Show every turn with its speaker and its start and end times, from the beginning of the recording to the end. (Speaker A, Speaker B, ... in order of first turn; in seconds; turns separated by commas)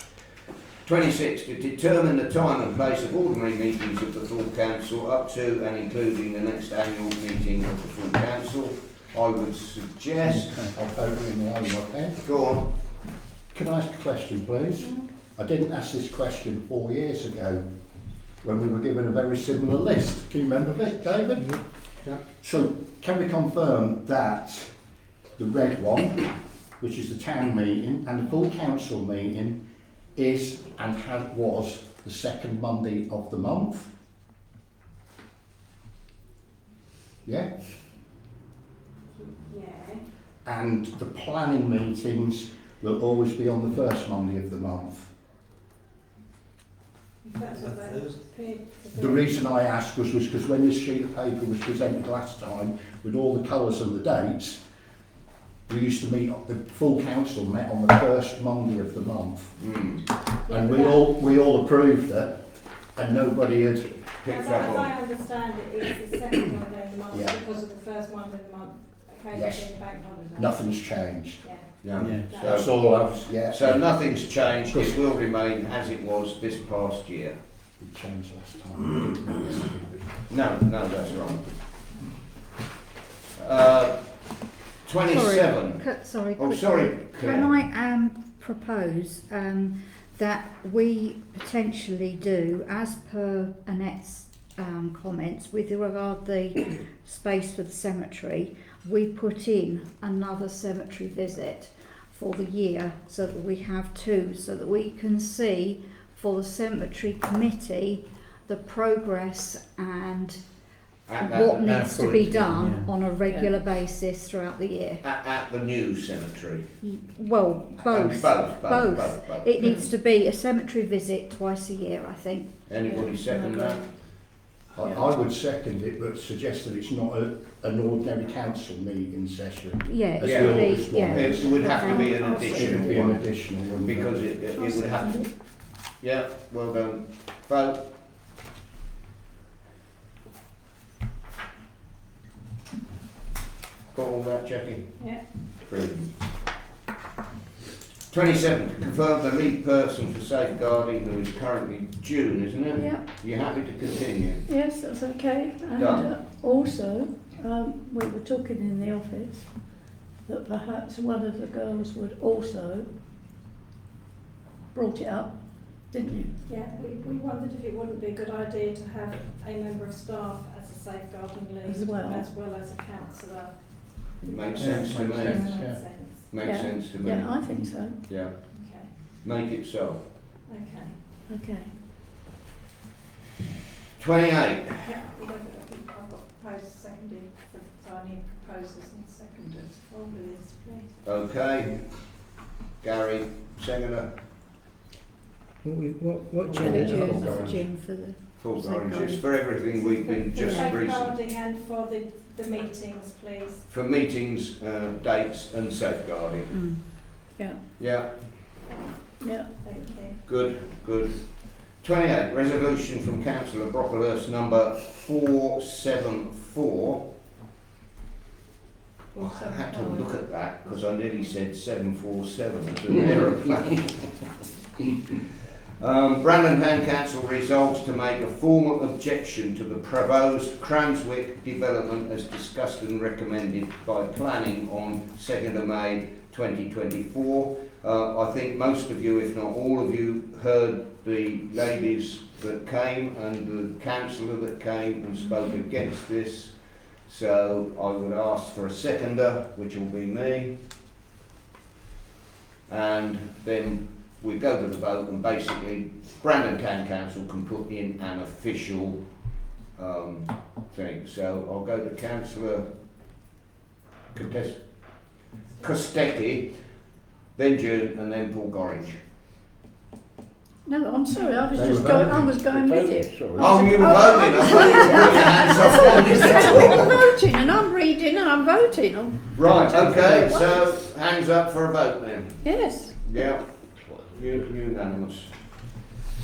Speaker A: 0.8-10.6, Speaker B: 10.5-12.3, Speaker A: 12.2-12.7, Speaker B: 13.5-17.7, Speaker C: 14.8-15.1, Speaker B: 18.4-21.6, Speaker B: 22.1-24.7, Speaker B: 25.4-29.6, Speaker B: 30.1-33.9, Speaker B: 37.2-37.5, Speaker C: 39.2-40.0, Speaker B: 40.5-45.1, Speaker C: 47.2-49.6, Speaker B: 48.9-54.6, Speaker B: 55.7-59.6, Speaker A: 59.6-60.0, Speaker B: 60.5-64.1, Speaker C: 60.5-61.0, Speaker A: 64.2-64.9, Speaker C: 64.3-70.6, Speaker B: 67.1-67.4, Speaker B: 69.3-75.0, Speaker C: 71.4-72.6, Speaker A: 71.8-72.7, Speaker D: 72.0-72.4, Speaker A: 73.3-77.4, Speaker B: 77.8-79.8, Speaker A: 80.3-81.4, Speaker A: 83.4-85.8, Speaker E: 85.1-110.5, Speaker A: 86.4-87.5, Speaker A: 111.1-112.3, Speaker E: 111.1-115.0, Speaker D: 111.7-113.0, Speaker F: 113.2-113.6, Speaker A: 115.0-116.7, Speaker E: 116.8-122.7, Speaker A: 117.8-119.7, Speaker F: 119.6-119.9, Speaker A: 122.7-123.9, Speaker F: 122.8-123.8, Speaker B: 124.7-134.3, Speaker E: 129.8-132.7, Speaker A: 130.2-137.8, Speaker F: 131.5-133.1, Speaker F: 134.5-135.3, Speaker A: 143.9-146.1, Speaker A: 148.1-154.4, Speaker F: 152.7-153.1, Speaker F: 154.5-162.9, Speaker A: 155.8-156.2, Speaker F: 164.7-166.3, Speaker C: 166.4-176.2, Speaker F: 171.7-172.3, Speaker A: 174.2-175.5, Speaker D: 174.6-175.8, Speaker A: 176.1-177.5, Speaker F: 176.4-178.1, Speaker A: 178.1-178.6, Speaker C: 178.5-178.9, Speaker A: 179.2-180.0, Speaker C: 180.5-181.0, Speaker F: 181.3-181.7, Speaker A: 184.0-184.7, Speaker C: 184.8-190.9, Speaker A: 191.0-191.8, Speaker A: 192.8-194.1, Speaker D: 195.6-197.6, Speaker B: 196.5-197.6, Speaker E: 196.6-199.3, Speaker F: 196.8-197.5, Speaker A: 198.4-201.2, Speaker C: 199.7-203.7, Speaker A: 203.7-207.1, Speaker E: 206.5-206.8, Speaker A: 207.8-208.3, Speaker C: 208.7-210.2, Speaker F: 209.2-209.5, Speaker A: 210.2-217.1, Speaker A: 219.2-224.3, Speaker A: 225.8-250.6, Speaker A: 252.7-262.7, Speaker A: 264.1-266.6, Speaker A: 267.4-269.0, Speaker F: 270.6-280.5, Speaker B: 271.5-272.5, Speaker A: 273.4-277.0, Speaker A: 279.4-285.3, Speaker F: 282.4-283.0